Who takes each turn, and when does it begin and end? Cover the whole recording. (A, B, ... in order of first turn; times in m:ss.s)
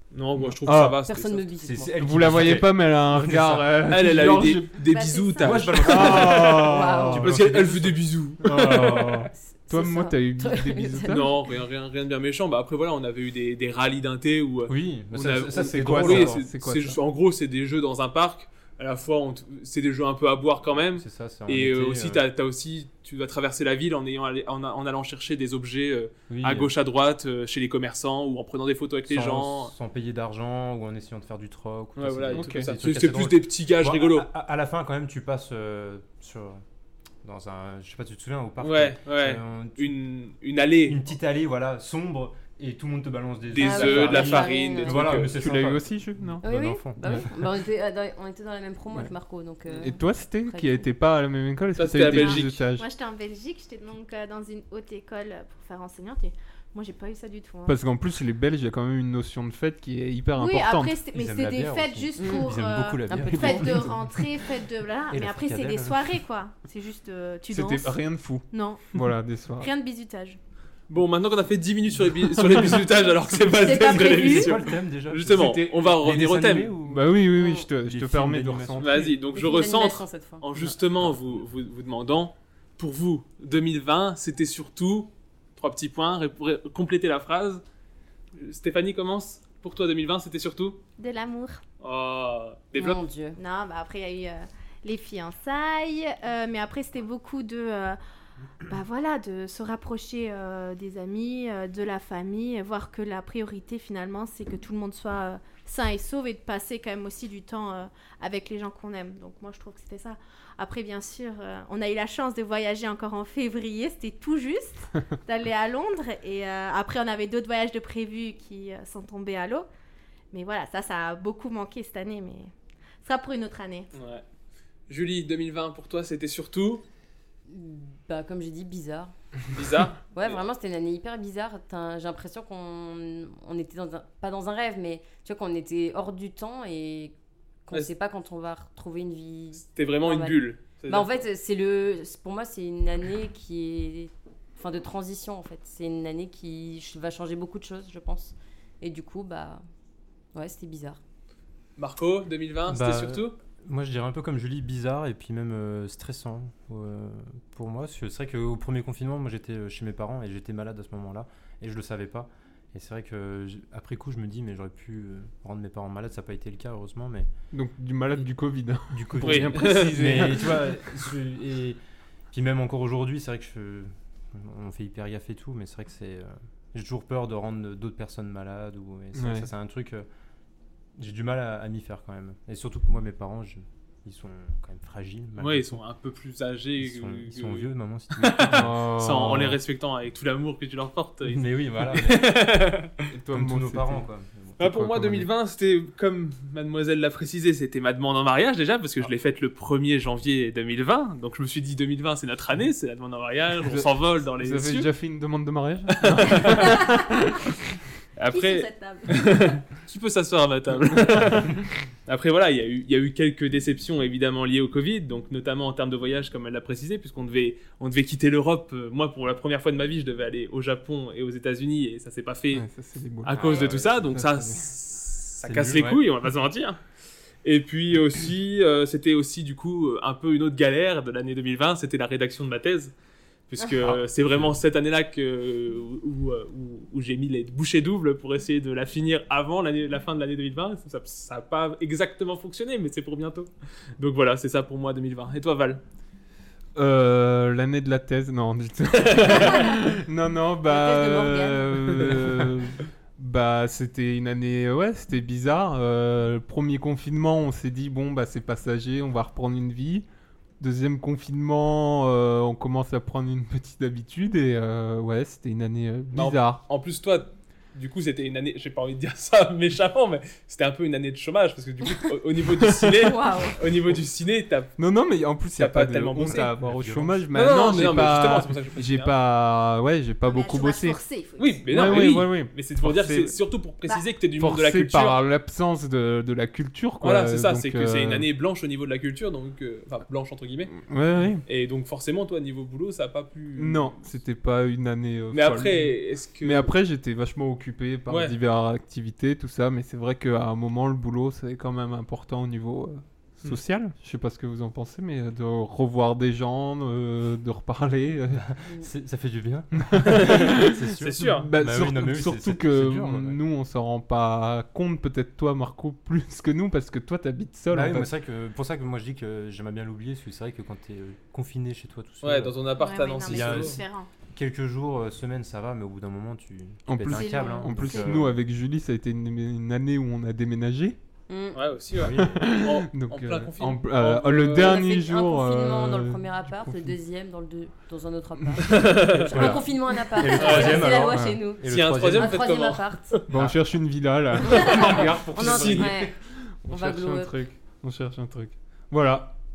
0:00.1-0:01.5 A
0:00.5-0:01.0 B
0:01.0-0:01.9 C
0:01.6-0:03.7 D
0:02.0-0:04.8 B
0:03.9-0:06.6 A
0:04.9-0:06.4 E
0:05.4-0:08.0 D
0:05.8-0:07.3 B
0:06.6-0:07.2 C
0:07.2-0:09.2 A
0:08.4-0:11.3 B
0:09.4-0:11.3 C
0:11.0-0:29.7 A
0:14.7-0:16.5 D
0:15.8-0:17.0 B
0:21.0-0:22.2 D
0:26.3-0:26.7 D
0:29.1-0:36.6 D
0:32.0-0:34.3 A
0:32.3-0:32.7 B
0:37.2-0:40.0 D
0:38.6-0:41.0 A
0:40.9-0:47.3 D
0:43.5-0:45.4 A
0:43.6-0:45.2 C
0:45.3-0:46.4 B
0:46.4-0:50.9 C
0:47.0-0:47.3 B
0:49.8-0:52.9 B
0:51.8-0:52.6 A
0:52.0-0:57.8 E
0:57.7-1:01.0 B
1:00.4-1:09.0 E
1:01.1-1:04.2 D
1:02.2-1:02.5 C
1:03.1-1:03.8 C
1:05.1-1:06.1 D
1:07.5-1:09.7 B
1:09.6-1:10.4 E
1:10.9-1:16.7 A
1:13.6-1:14.5 E
1:13.8-1:17.2 D
1:16.9-1:19.1 B
1:17.4-1:17.7 C
1:17.8-1:19.1 D
1:18.8-1:27.6 A
1:19.3-1:20.4 C
1:28.4-1:30.8 A
1:31.0-1:31.6 E
1:31.8-1:33.0 A
1:32.8-1:33.4 C
1:33.4-1:38.0 E
1:38.6-1:59.7 E
2:00.3-2:02.5 E
2:03.0-2:03.9 E
2:03.9-2:04.2 A
2:04.9-2:06.8 A
2:07.5-2:09.1 C
2:09.5-2:10.4 A
2:10.1-2:17.1 C
2:17.7-2:29.6 C
2:19.6-2:21.2 A
2:30.4-2:31.0 C
2:31.8-2:33.4 A
2:32.7-2:47.3 D
2:47.5-2:50.7 B
2:48.9-2:51.8 D
2:49.2-2:50.3 A
2:52.3-3:00.1 D
2:59.2-2:59.5 B
3:01.0-3:05.8 D
3:05.4-3:12.9 A
3:06.8-3:08.8 D
3:08.5-3:09.6 B
3:11.2-3:12.4 D
3:13.1-3:14.0 B
3:13.3-3:14.7 D
3:14.6-3:24.9 A
3:14.6-3:15.3 B
3:23.6-3:27.4 B
3:25.9-3:26.7 A
3:26.5-3:27.1 E
3:28.2-3:31.5 A
3:28.3-3:29.5 E
3:32.1-3:42.6 A
3:42.5-3:44.6 B
3:43.2-3:46.8 A
3:43.3-3:44.1 D
3:45.4-3:46.0 D
3:47.4-3:52.9 A
3:53.5-4:05.8 A
3:53.8-3:54.5 D
4:06.8-4:20.0 B
4:10.6-4:11.8 C
4:20.6-4:26.6 B
4:26.1-4:34.7 A
4:33.0-4:33.6 E
4:34.8-4:41.0 B
4:35.6-4:36.5 A
4:36.2-4:37.3 D
4:37.3-4:39.1 A
4:40.2-4:42.0 E
4:41.4-4:45.2 A
4:41.7-4:43.4 B
4:44.4-4:48.3 B
4:47.0-4:50.8 A
4:50.7-4:51.4 B
4:51.4-4:54.0 A
4:53.6-5:08.4 B
4:55.3-4:56.7 A
4:58.1-4:58.4 A
5:08.3-5:13.4 D
5:09.8-5:18.1 B
5:10.1-5:11.5 A
5:17.7-5:22.6 D
5:22.2-5:23.8 A
5:22.8-5:24.1 E
5:23.2-5:23.8 D
5:24.3-5:28.4 D
5:26.9-5:31.0 B
5:27.1-5:28.3 E
5:31.3-5:31.6 C
5:31.5-5:34.8 A
5:32.0-5:32.4 D
5:32.1-5:37.0 B
5:34.5-5:43.2 C
5:38.6-5:39.6 A
5:39.3-5:39.6 B
5:39.3-5:42.5 D
5:40.3-5:41.0 A
5:41.1-5:41.4 B
5:41.6-5:43.2 A
5:43.3-5:46.1 B
5:43.3-5:43.6 D
5:44.5-5:46.1 C
5:44.6-5:46.0 A
5:44.8-5:46.0 D
5:46.6-5:49.3 B
5:46.7-5:47.4 C